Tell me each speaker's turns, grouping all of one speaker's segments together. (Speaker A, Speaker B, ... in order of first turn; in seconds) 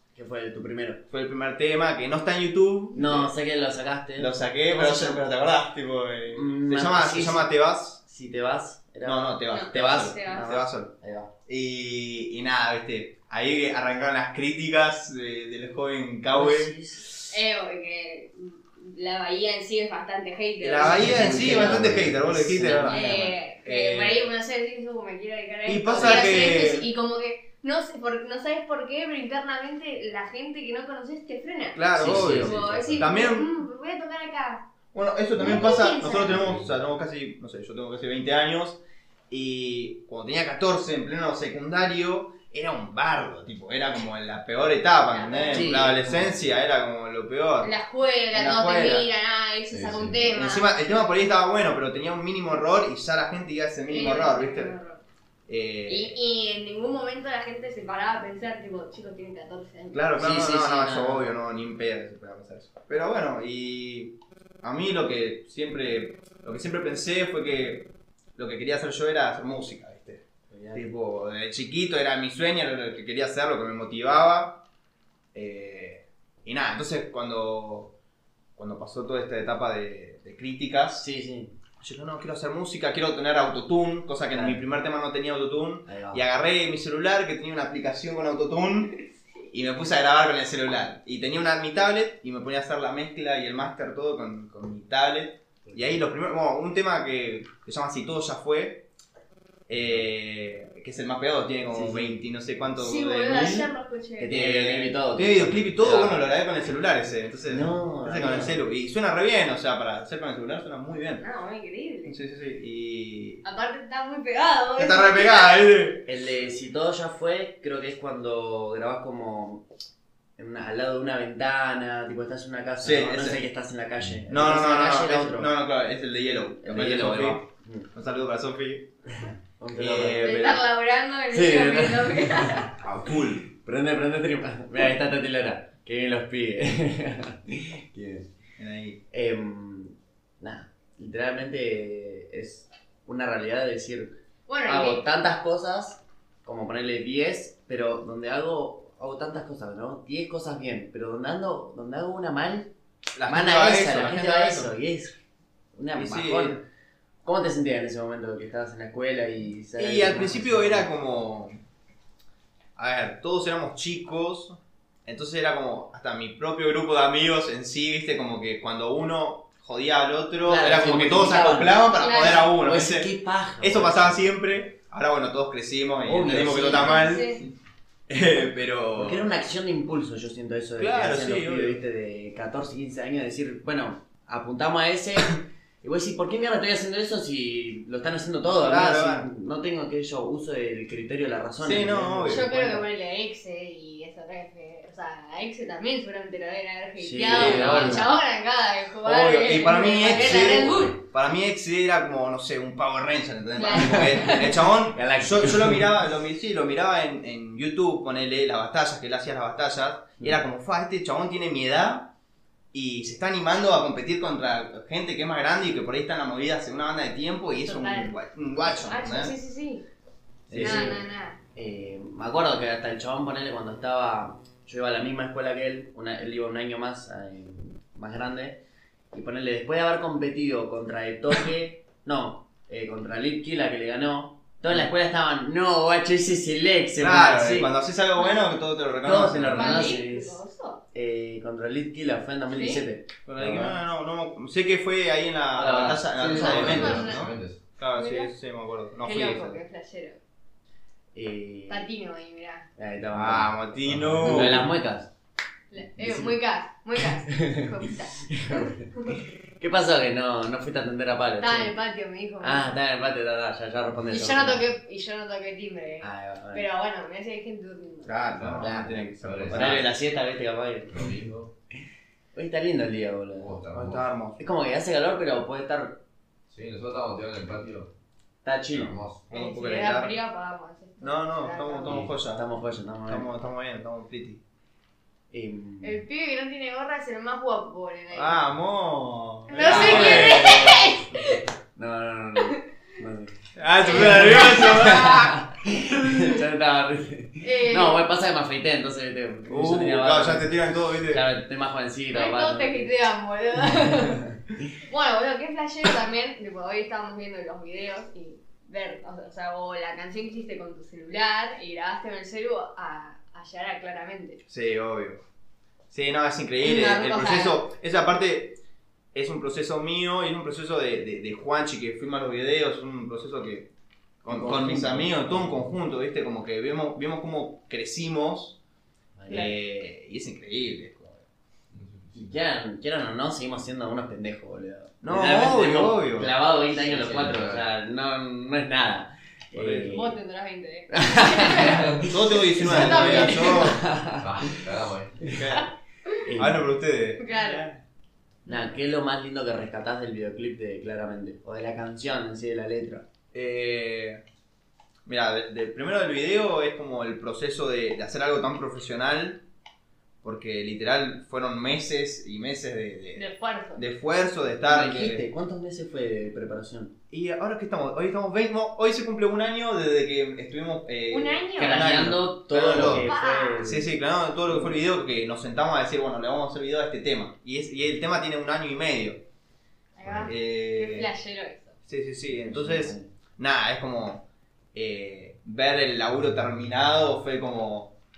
Speaker A: 0.1-1.0, 2.9-5.2, 6.3-7.5, 8.0-11.3, 16.3-17.0, 21.0-23.1, 31.9-33.0, 45.5-46.4, 60.2-61.3, 70.5-70.9, 81.0-81.5, 84.3-84.6, 85.8-86.2, 101.7-102.2, 104.2-106.2, 107.5-108.6, 116.0-119.7, 120.4-125.5, 126.6-127.9, 129.2-130.4, 131.3-132.6, 133.5-138.3, 139.1-144.1, 144.7-152.7, 153.2-155.2, 155.7-156.6, 157.2-160.9, 170.4-174.3, 176.1-177.2, 179.0-192.8, 197.0-198.1, 200.1-200.9, 203.7-205.9, 220.5-221.0, 221.5-228.6, 229.1-237.7, 239.0-240.4, 240.9-243.8, 245.5-246.8, 251.1-251.9, 252.8-253.6, 254.2-255.1, 256.0-256.4, 257.2-261.7, 262.4-264.6, 266.0-266.6, 268.6-271.1, 272.3-273.6, 274.4-276.0, 278.4-278.9, 281.9-283.3, 285.3-286.0, 289.6-290.6, 291.7-293.3, 293.9-300.5, 301.1-302.9, 324.3-325.6, 329.2-329.5, 332.1-340.1, 340.9-344.2, 346.2-346.7, 348.4-353.1, 364.6-366.9, 371.6-373.9, 382.3-383.1
Speaker B: 1.1-3.3, 4.2-8.0, 9.0-10.9, 11.5-17.3, 20.6-24.3, 25.6-26.8, 31.7-33.5, 34.9-38.8, 39.3-47.7, 48.3-49.1, 50.3-54.7, 55.5-56.1, 59.9-74.6, 75.3-77.9, 78.5-81.0, 81.8-88.9, 89.5-98.8, 99.7-103.7, 104.3-111.2, 112.0-113.4, 114.8-116.0, 122.8-123.4, 124.3-127.4, 127.9-128.9, 129.7-130.7, 132.8-133.4, 138.6-139.0, 153.2-154.7, 155.9-156.6, 159.8-161.6, 162.8-177.5, 178.1-179.3, 180.8-181.8, 188.6-189.3, 191.6-192.5, 197.3-198.1, 199.0-212.1, 212.7-219.3, 220.5-221.0, 237.0-239.9, 243.2-249.6, 253.1-254.7, 268.0-269.9, 273.7-274.4, 279.3-280.1, 281.0-282.4, 283.1-284.4, 288.1-291.0, 293.6-296.4, 299.5-301.2, 314.5-315.2, 315.9-318.6, 319.1-323.7, 324.2-328.6, 329.3-331.2, 335.0-336.3, 339.5-340.0, 342.0-343.8, 345.3-345.7, 346.4-347.7, 353.3-354.2, 355.0-359.4, 360.2-365.2, 367.1-379.2, 380.2-381.1, 381.9-387.9
Speaker C: 9.5-10.5, 17.3-21.8, 22.8-34.7, 35.4-36.5, 45.1-45.8, 47.6-50.8, 53.9-55.0, 55.9-60.0, 102.8-104.4, 111.2-112.2, 113.4-115.6, 130.2-132.7, 144.5-145.0, 171.9-172.5, 176.9-177.4, 192.2-201.0, 203.6-204.5, 217.6-218.1, 218.7-219.8, 220.6-221.4, 239.5-240.8, 242.5-242.8, 246.3-247.2, 247.9-248.3, 249.0-250.2, 251.7-252.7, 255.7-259.2, 261.4-262.7, 264.1-268.1, 279.3-282.0, 285.8-288.4, 289.5-291.4, 293.8-295.1, 297.4-298.0, 302.1-304.3, 304.8-314.4, 316.6-317.6, 339.9-343.8, 347.2-347.7, 363.1-363.8, 371.1-371.9, 372.8-373.7, 379.9-381.8
Speaker D: 21.1-22.1, 32.1-33.0, 36.3-36.6, 49.7-50.3, 246.3-247.6, 253.9-254.6, 268.4-269.9, 270.9-271.5, 273.4-274.0, 276.5-277.9, 278.7-279.2, 331.7-332.3, 336.7-337.6, 344.2-345.3